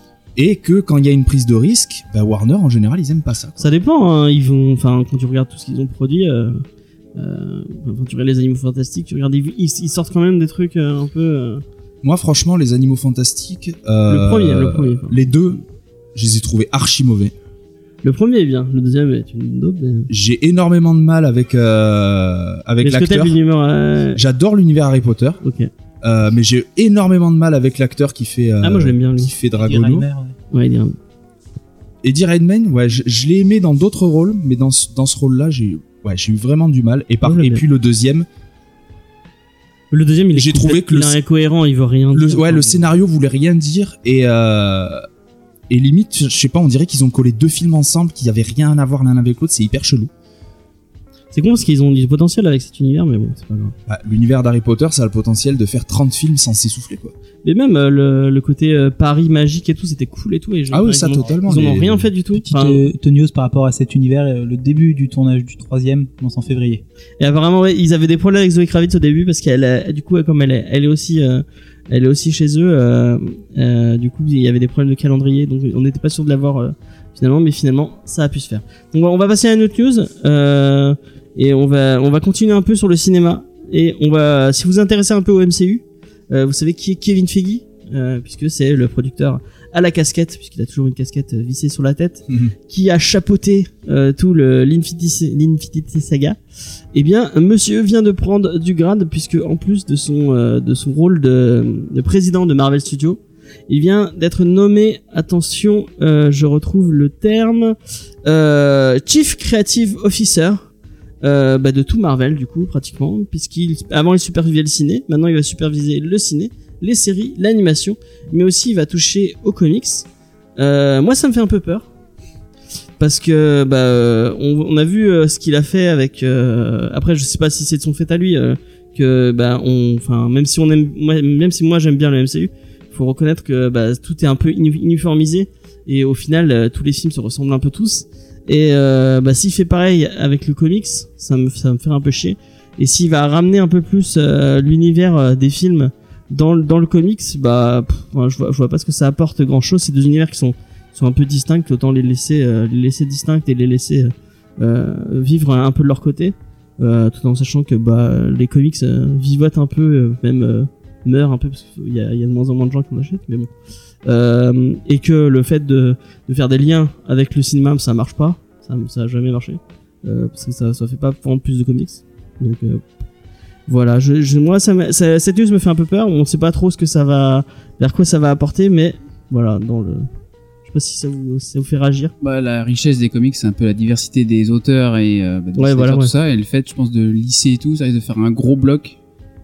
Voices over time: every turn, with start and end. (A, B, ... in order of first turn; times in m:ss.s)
0:00.4-0:03.7 A
0:03.6-0:06.6 B
0:07.2-0:11.6 B
0:12.0-0:15.6 A
0:14.1-0:15.5 B
0:16.2-0:17.3 A
0:18.0-0:20.1 B
0:20.1-0:23.4 A
0:22.8-0:24.2 B
0:24.2-0:25.4 A
0:25.4-0:25.7 B
0:26.0-0:30.1 A
0:28.6-0:29.4 B
0:29.6-0:30.4 C
0:30.5-0:31.0 B
0:32.0-0:38.3 A
0:37.2-0:37.6 B
0:39.9-0:42.9 B
0:40.4-0:41.2 A
0:42.1-0:45.1 A
0:45.7-0:50.1 A
0:51.3-0:53.7 B
0:53.9-0:57.1 A
0:57.4-1:02.9 B
1:00.7-1:02.1 A
1:02.3-1:06.8 C
1:07.2-1:36.4 B
1:36.9-1:50.7 B
1:51.2-2:00.1 B
2:00.6-2:01.9 B
2:03.0-2:43.5 B
2:44.0-2:52.8 B
2:53.7-3:00.1 B
3:00.7-3:02.1 B
3:02.2-3:09.0 D
3:05.6-3:06.1 B